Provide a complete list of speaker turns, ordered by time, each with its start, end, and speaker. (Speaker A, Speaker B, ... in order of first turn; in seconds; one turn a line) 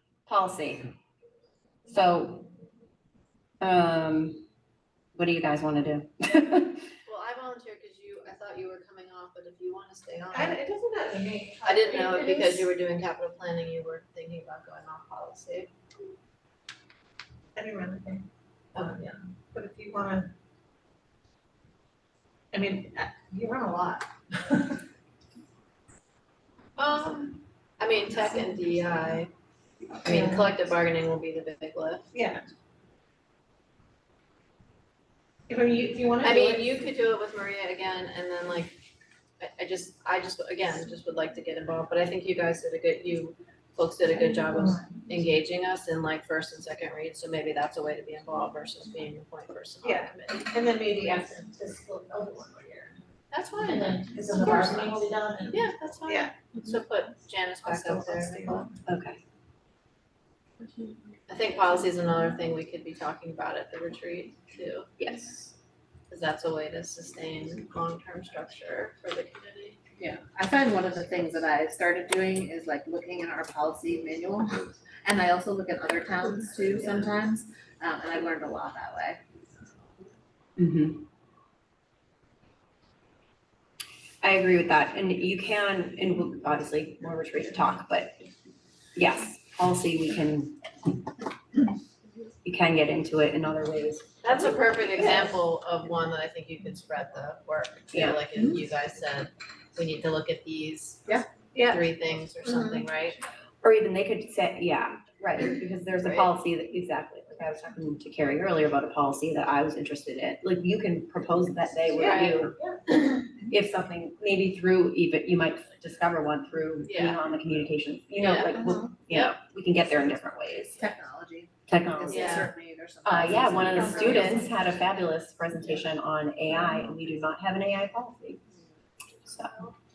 Speaker A: 0.3-0.9
Speaker A: 1.9-2.5
Speaker A: 3.6-4.4
Speaker A: 5.1-6.8
Speaker B: 7.0-10.6
Speaker C: 10.3-12.7
Speaker B: 11.6-15.7
Speaker C: 17.6-20.3
Speaker B: 18.7-19.0
Speaker C: 22.5-24.8
Speaker B: 26.8-29.3
Speaker B: 30.0-32.1
Speaker C: 30.0-30.4
Speaker C: 32.1-32.4
Speaker C: 35.5-36.7
Speaker B: 36.2-38.8
Speaker B: 39.4-50.5
Speaker C: 44.4-44.7
Speaker C: 49.8-53.0
Speaker B: 53.3-58.7
Speaker C: 53.7-56.3
Speaker C: 57.6-58.7
Speaker A: 58.9-59.2
Speaker B: 61.3-64.9
Speaker A: 65.0-65.5
Speaker B: 66.1-69.8
Speaker D: 70.0-79.2
Speaker A: 80.6-81.0
Speaker A: 84.2-88.2
Speaker A: 88.9-90.7
Speaker A: 92.4-95.4
Speaker B: 94.2-103.2
Speaker A: 97.9-98.2
Speaker C: 101.1-101.8
Speaker C: 102.5-102.8
Speaker A: 103.6-112.5
Speaker B: 106.0-106.3
Speaker B: 112.0-112.4
Speaker A: 113.5-120.8
Speaker B: 116.9-117.2
Speaker B: 118.2-119.3
Speaker D: 120.8-124.2
Speaker A: 121.7-122.4
Speaker B: 122.1-122.5
Speaker A: 123.0-128.4
Speaker B: 123.9-124.5
Speaker A: 129.3-129.5